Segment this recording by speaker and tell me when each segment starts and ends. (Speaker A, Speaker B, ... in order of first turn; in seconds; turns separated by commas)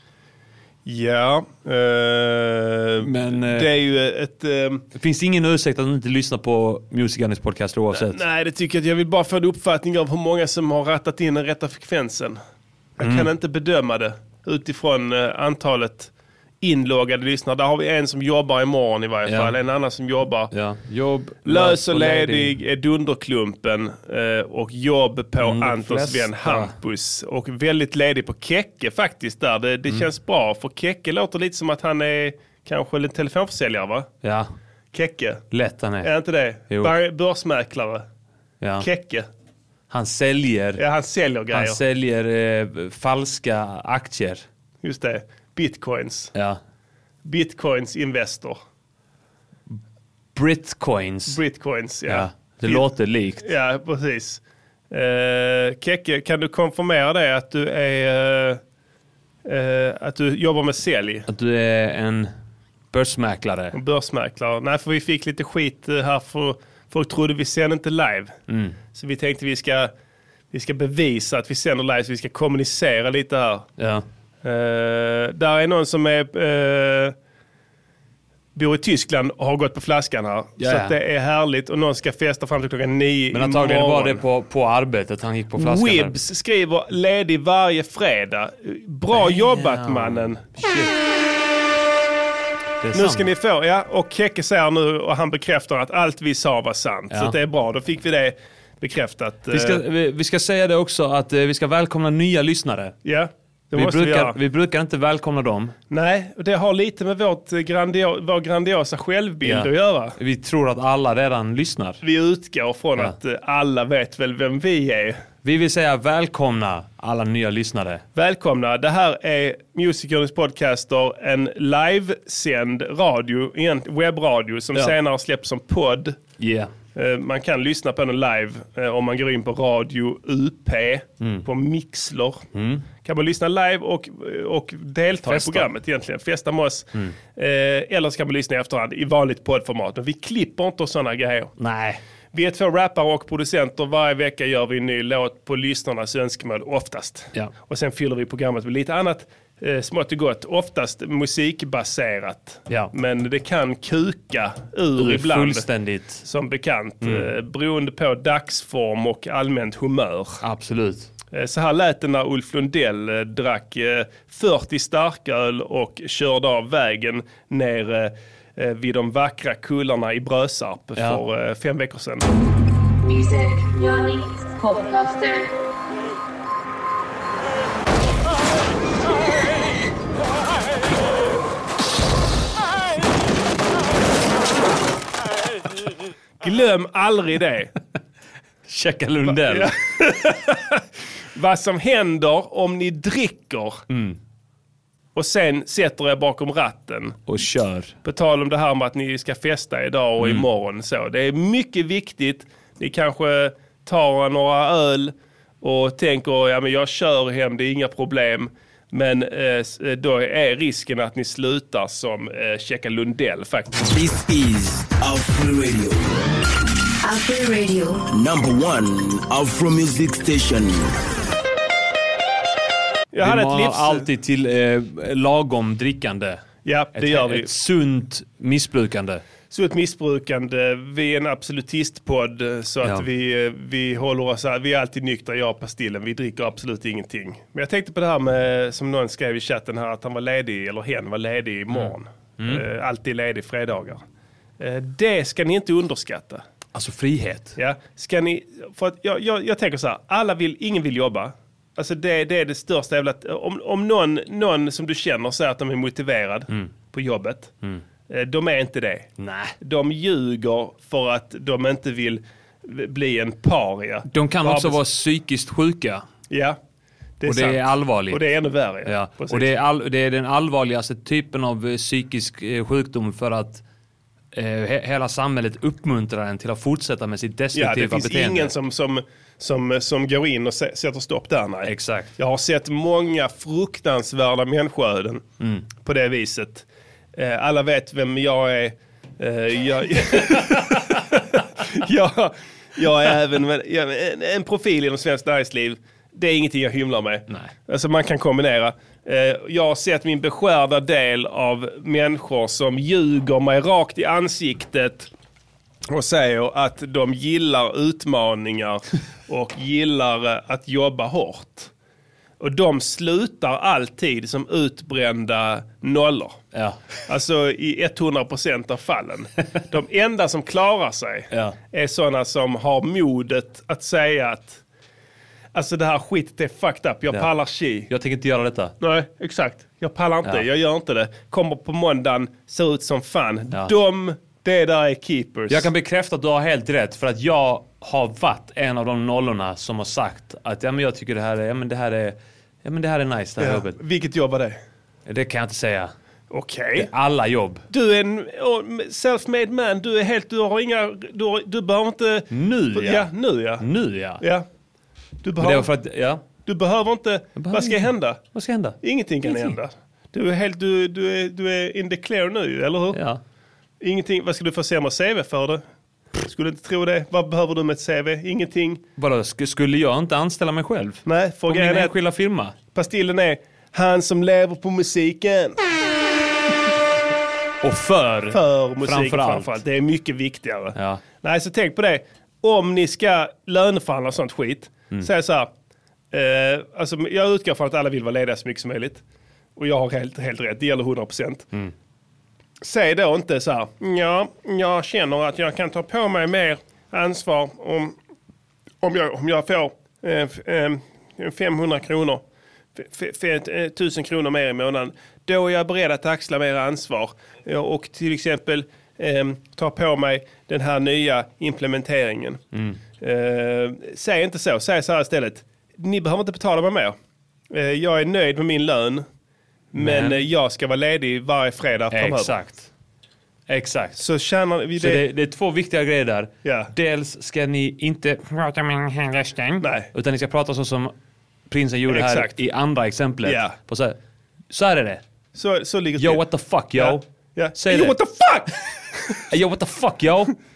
Speaker A: 0.8-4.8, Speaker B: 3.0-3.7, Speaker B: 4.9-8.2, Speaker A: 7.9-12.4, Speaker A: 13.0-20.5, Speaker B: 13.0-13.3, Speaker B: 19.2-19.6, Speaker B: 20.5-22.6, Speaker A: 21.4-34.1, Speaker B: 25.4-26.7, Speaker B: 34.2-34.5, Speaker A: 34.9-35.4, Speaker B: 35.5-36.1, Speaker A: 36.0-38.0, Speaker B: 38.6-38.9, Speaker A: 38.8-39.3, Speaker B: 39.9-40.8, Speaker A: 40.8-41.8, Speaker B: 41.5-44.5, Speaker A: 44.8-46.3, Speaker B: 46.3-46.6, Speaker A: 47.2-48.6, Speaker B: 50.3-51.4, Speaker A: 51.3-58.6, Speaker B: 52.1-53.5, Speaker A: 59.4-61.3, Speaker B: 61.3-62.3, Speaker B: 62.9-63.8, Speaker A: 63.7-68.4, Speaker B: 68.5-68.8, Speaker A: 68.9-69.9, Speaker A: 70.5-73.7, Speaker B: 73.8-74.0, Speaker A: 74.4-77.1, Speaker A: 78.5-84.2, Speaker B: 80.6-80.9, Speaker B: 83.3-86.2, Speaker A: 85.5-90.4, Speaker B: 89.1-90.9, Speaker B: 92.8-93.3, Speaker A: 92.9-99.8, Speaker B: 97.1-97.4, Speaker B: 99.5-103.0, Speaker A: 103.0-104.3, Speaker B: 103.7-105.8, Speaker A: 105.9-110.2, Speaker B: 109.4-112.0, Speaker A: 112.0-115.2, Speaker B: 115.4-118.0, Speaker A: 118.1-126.2, Speaker B: 126.4-126.7, Speaker A: 126.9-132.5, Speaker B: 131.2-131.5, Speaker B: 132.5-132.8, Speaker A: 133.0-141.5, Speaker B: 135.2-135.7, Speaker B: 141.6-142.0, Speaker A: 142.3-155.7, Speaker B: 154.9-156.2, Speaker A: 156.2-160.4, Speaker B: 157.0-157.3, Speaker B: 160.4-161.1, Speaker A: 161.3-172.3, Speaker B: 170.9-171.2, Speaker C: 173.1-175.4, Speaker A: 186.4-187.7, Speaker B: 188.7-189.7, Speaker A: 189.3-190.8, Speaker A: 191.3-193.8, Speaker B: 193.9-194.2, Speaker A: 195.1-197.2, Speaker B: 197.3-197.9, Speaker A: 198.0-213.7, Speaker B: 200.2-200.5, Speaker D: 213.8-216.4, Speaker C: 217.0-218.0, Speaker D: 218.1-220.9, Speaker A: 223.1-224.1, Speaker B: 223.2-226.4, Speaker A: 226.6-227.5, Speaker B: 226.9-229.2, Speaker A: 229.5-244.0, Speaker B: 241.7-242.6, Speaker A: 244.6-246.4, Speaker B: 246.7-247.6, Speaker A: 247.6-257.5, Speaker A: 258.1-259.1, Speaker B: 259.2-259.5, Speaker A: 259.6-264.8, Speaker B: 264.1-266.1, Speaker A: 266.3-266.6, Speaker A: 267.2-269.5, Speaker B: 267.2-268.2, Speaker B: 268.8-273.6, Speaker B: 274.3-278.5, Speaker A: 277.5-285.2, Speaker B: 281.6-282.1, Speaker B: 285.4-285.7, Speaker A: 285.8-305.1, Speaker A: 305.9-311.7, Speaker A: 312.4-316.4, Speaker B: 316.5-316.8, Speaker A: 317.1-324.6, Speaker B: 321.3-321.6, Speaker A: 325.5-327.9, Speaker B: 327.9-328.7, Speaker A: 328.8-335.7, Speaker B: 335.5-343.8, Speaker A: 343.4-344.6, Speaker B: 345.1-345.9, Speaker A: 346.3-346.9, Speaker B: 346.7-347.6, Speaker A: 347.7-353.6, Speaker B: 352.3-354.2, Speaker A: 354.2-354.4, Speaker A: 355.2-355.7, Speaker B: 355.4-356.2, Speaker A: 356.4-358.2, Speaker B: 357.4-359.5, Speaker A: 358.8-363.0, Speaker B: 362.9-363.2, Speaker A: 363.8-365.6, Speaker A: 366.2-368.8, Speaker B: 369.0-372.6, Speaker A: 371.1-371.9, Speaker A: 372.7-375.6, Speaker B: 377.6-379.6, Speaker A: 378.3-385.5, Speaker B: 380.7-381.0, Speaker A: 386.1-389.0, Speaker A: 389.6-391.5, Speaker A: 392.6-397.9, Speaker A: 398.8-402.2, Speaker A: 402.8-412.4, Speaker B: 412.5-412.8, Speaker A: 413.0-416.9, Speaker A: 417.5-419.0, Speaker A: 419.7-422.3, Speaker B: 419.8-420.2, Speaker B: 421.9-422.7, Speaker B: 423.5-424.0, Speaker A: 424.0-425.0, Speaker B: 424.8-430.9, Speaker A: 426.4-426.7, Speaker A: 429.6-429.9, Speaker B: 431.5-434.0, Speaker A: 431.9-432.4, Speaker A: 433.2-433.6, Speaker B: 434.5-435.0, Speaker A: 435.3-436.2, Speaker B: 436.0-437.0, Speaker A: 436.7-439.2, Speaker B: 437.6-437.9, Speaker B: 439.3-440.3